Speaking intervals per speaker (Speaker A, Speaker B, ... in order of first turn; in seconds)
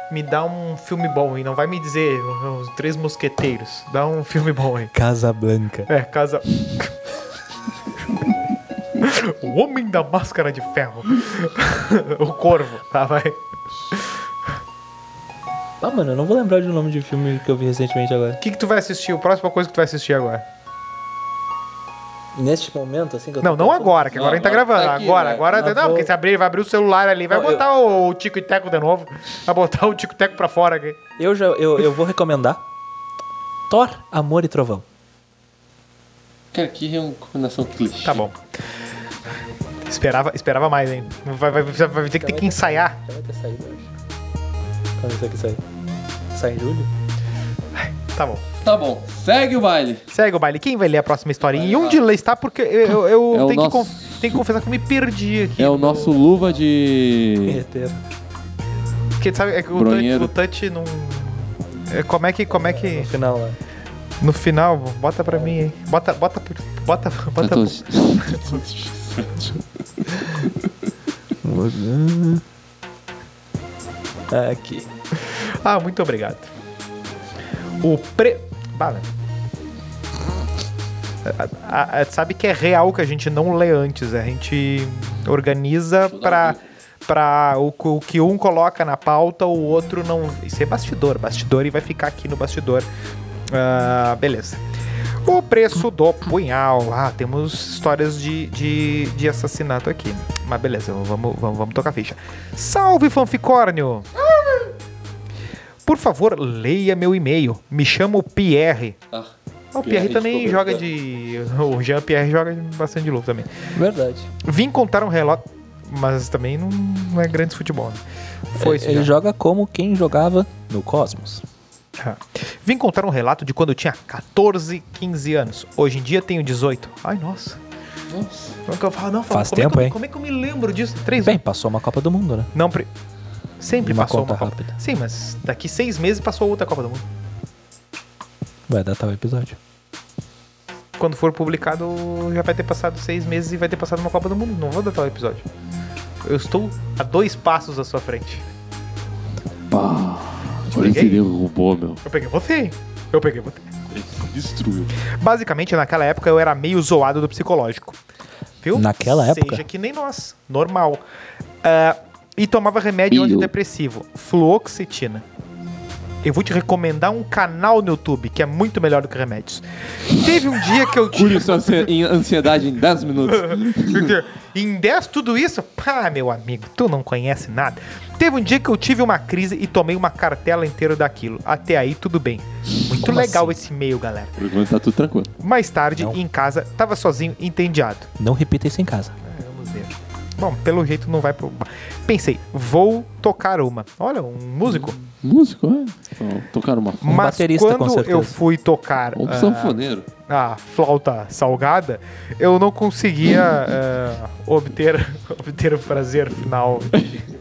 Speaker A: 0.1-4.9, 5.9-7.0, 9.0-14.2, 18.4-20.4, 23.4-31.0, 38.0-38.4, 39.9-43.0, 47.8-48.4, 50.1-56.5, 59.2-63.1, 64.2-68.4, 75.2-76.5, 77.8-79.1, 81.2-92.9, 93.5-94.6, 95.2-104.1, 105.8-109.0, 109.7-113.5, 114.4-119.1, 122.0-127.6, 128.7-131.4, 132.5-132.9, 133.6-137.1, 141.0-145.5, 146.2-148.5, 150.7-151.2, 152.0-153.7, 155.1-158.0, 158.6-161.0, 161.6-165.2, 166.2-171.9, 173.3-184.3, 185.4-188.1, 189.2-195.0, 197.0-207.2
Speaker B: 4.9-5.9, 15.8-18.4, 22.4-24.1, 25.5-26.1, 27.3-27.6, 31.2-32.6, 33.7-34.8, 42.2-43.9, 45.0-45.6, 46.3-46.9, 57.5-58.0, 62.5-63.6, 65.3-65.5, 71.4-72.4, 74.3-74.9, 113.8-114.3, 118.6-121.4, 129.3-129.9, 131.2-132.5, 133.8-134.7, 138.7-139.6, 158.7-159.7, 183.0-183.6, 188.2-189.2, 197.1-198.3
Speaker C: 24.1-25.6, 36.5-38.2, 48.6-50.0, 51.5-52.0, 53.3-54.4, 55.6-57.6, 59.8-60.3, 67.4-70.5, 86.1-86.6, 109.1-110.8, 128.1-128.6, 149.7-152.0, 153.9-154.9, 163.1-163.5, 171.1-174.1, 184.4-185.3, 194.8-197.2, 199.2-200.1, 206.9-207.2